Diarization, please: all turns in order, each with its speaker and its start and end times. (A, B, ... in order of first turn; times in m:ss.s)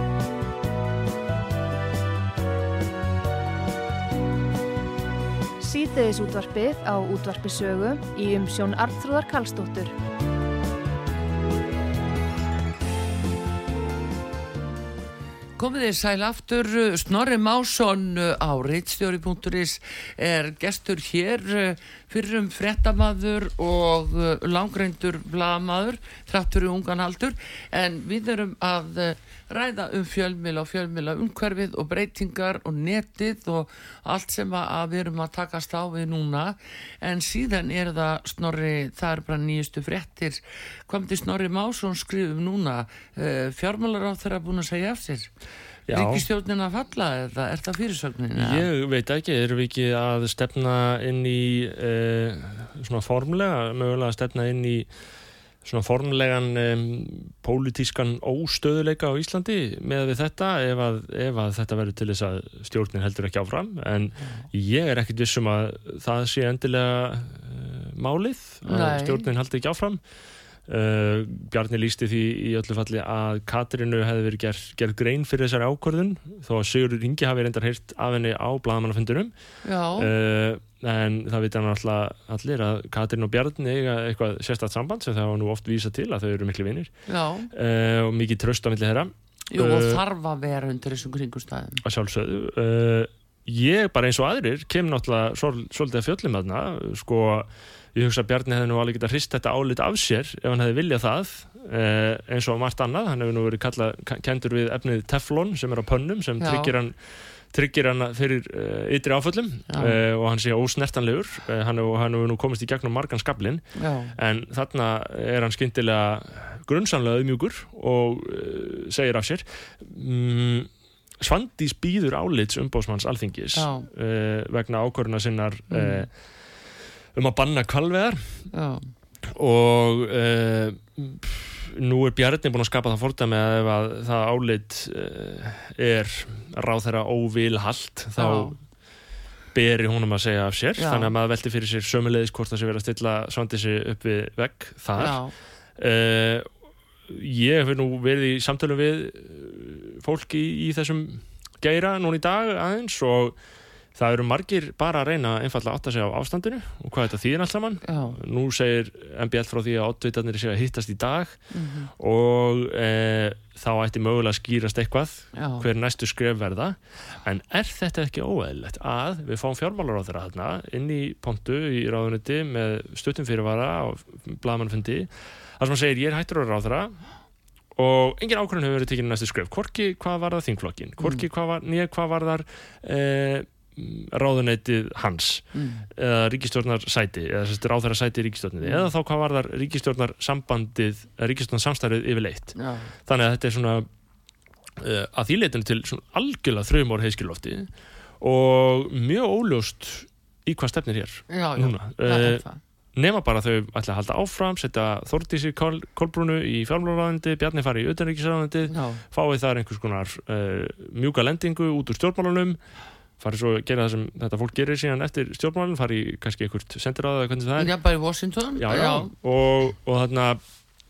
0:05.6-0:09.9 A
0:15.6-0:45.3 B
0:45.9-0:46.3 C
0:45.9-0:48.7 B
0:48.4-0:54.9 C
0:55.6-1:10.0 C
1:04.2-1:04.5 B
1:08.7-1:09.2 B
1:10.7-1:19.3 C
1:19.6-1:20.1 B
1:20.0-1:26.9 C
1:27.1-1:27.5 B
1:27.5-1:30.0 C
1:29.5-1:31.8 B
1:31.8-1:47.0 C
1:46.4-1:46.7 B
1:47.5-1:53.6 C
1:49.7-1:50.0 B
1:53.8-1:54.2 B
1:54.2-2:00.7 C
2:01.2-2:06.1 C
2:03.6-2:03.9 B
2:05.7-2:06.1 B
2:07.2-2:08.3 C
2:08.5-2:08.8 B
2:09.2-2:18.6 C
2:18.2-2:18.6 B
2:19.5-2:25.2 C
2:20.8-2:21.1 B
2:25.0-2:25.3 B
2:25.8-2:26.5 C
2:27.1-2:33.4 C
2:34.0-2:41.4 C
2:37.9-2:38.2 B
2:41.5-2:41.9 B
2:42.0-2:57.0 C
2:45.4-2:45.7 B
2:57.8-3:13.9 C
3:05.6-3:05.9 B
3:12.6-3:12.9 B
3:14.8-3:17.7 C
3:18.2-3:22.4 C
3:21.3-3:22.6 B
3:23.0-3:32.6 C
3:28.7-3:29.0 B
3:33.2-3:37.7 C
3:37.6-3:39.1 B
3:38.6-3:40.4 C